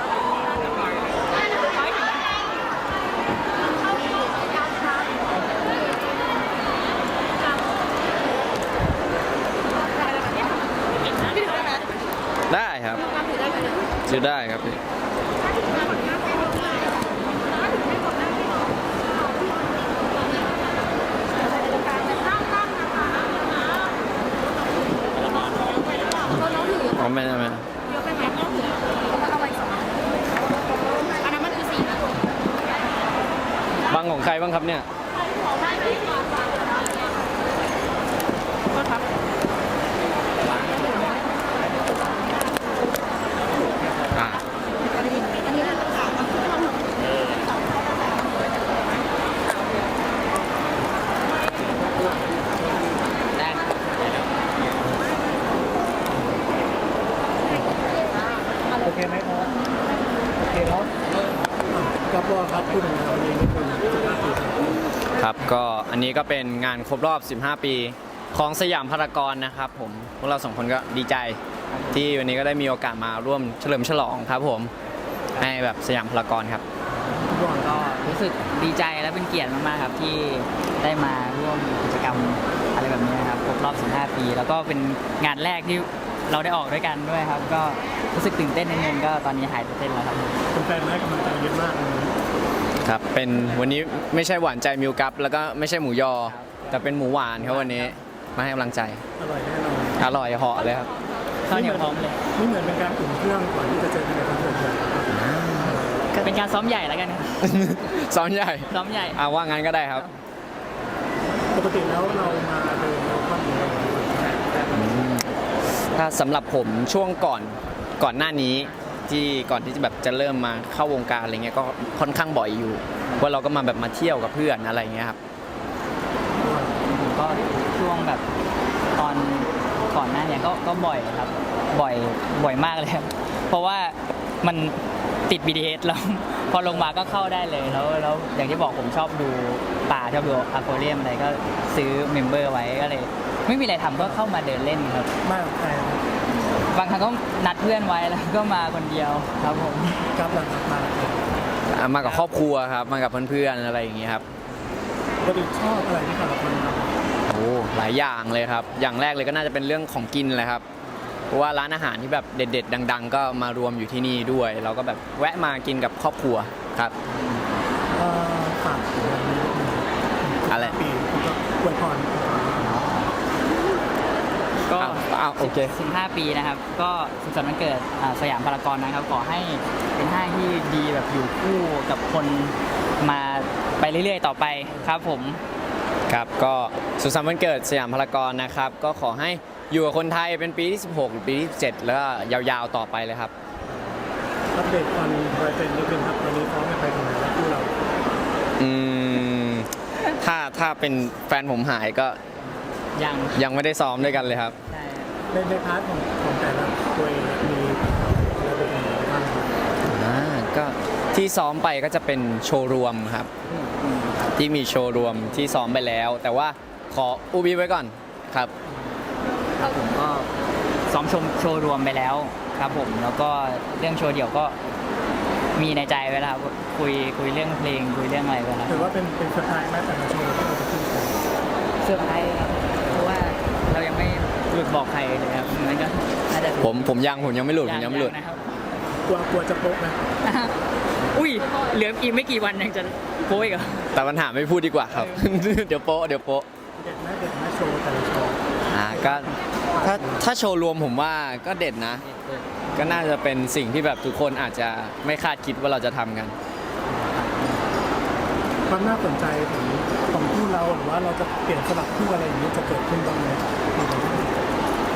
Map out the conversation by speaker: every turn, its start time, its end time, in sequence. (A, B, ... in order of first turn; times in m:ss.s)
0:01.6-0:02.3 A
0:04.8-0:05.1 A
0:10.0-0:10.4 A
0:11.1-0:11.9 A
0:12.5-0:13.1 B
0:13.0-0:13.8 A
0:14.1-0:14.8 B
0:15.8-0:16.7 A
0:21.5-0:22.4 A
0:26.3-0:27.7 B
0:26.4-0:27.0 A
0:27.9-0:30.0 A
0:31.2-0:32.1 A
0:33.9-0:34.9 B
0:35.6-0:36.0 A
0:38.7-0:39.1 A
0:40.6-0:41.0 C
0:44.1-0:44.4 B
0:51.7-0:52.8 D
0:58.8-0:59.6 D
1:00.5-1:00.9 D
1:01.7-1:04.8 D
1:05.2-1:11.4 B
1:11.7-1:12.2 C
1:11.9-1:14.7 B
1:15.4-1:16.6 B
1:17.0-1:18.1 D
1:17.4-1:30.4 C
1:30.5-1:32.2 D
1:32.8-1:39.0 B
1:36.3-1:36.8 C
1:37.4-1:37.9 C
1:39.2-1:40.1 D
1:40.0-1:40.9 B
1:41.5-1:42.2 C
1:41.5-1:46.1 D
1:45.1-1:45.8 B
1:46.2-1:47.6 C
1:47.4-1:50.1 B
1:48.7-1:49.2 C
1:51.5-1:54.5 D
1:54.7-2:05.2 B
2:06.4-2:06.8 D
2:06.8-2:08.2 C
2:09.0-2:25.1 C
2:16.6-2:17.3 D
2:24.0-2:24.2 D
2:25.2-2:26.0 D
2:26.6-2:30.1 C
2:30.2-2:31.3 D
2:31.7-2:34.2 B
2:35.2-2:36.9 D
2:37.3-2:40.6 B
2:41.3-2:46.9 B
2:47.9-2:52.8 D
2:50.5-2:50.8 B
2:52.6-2:53.2 C
2:54.7-3:05.4 C
2:54.7-2:55.8 B
3:04.7-3:05.0 D
3:06.1-3:13.3 B
3:13.6-3:17.7 D
3:18.6-3:22.2 B
3:22.4-3:23.4 C
3:23.4-3:24.6 B
3:24.0-3:25.2 C
3:25.3-3:29.5 D
3:29.8-3:33.3 B
3:33.5-3:34.4 C
3:34.4-3:38.5 B
3:39.6-3:40.3 C
3:40.9-3:44.6 C
3:45.6-3:48.9 C
3:48.7-3:51.2 D
3:51.8-3:57.0 C
3:56.6-3:58.2 B
3:57.6-3:58.9 C
3:59.0-4:00.0 D
4:00.2-4:00.5 C
4:01.1-4:03.9 C
4:03.9-4:06.5 B
4:04.9-4:05.3 C
4:06.8-4:10.3 D
4:08.7-4:09.3 B
4:09.8-4:12.0 B
4:12.0-4:12.8 C
4:12.8-4:16.4 B
4:16.9-4:17.6 C
4:18.7-4:24.5 D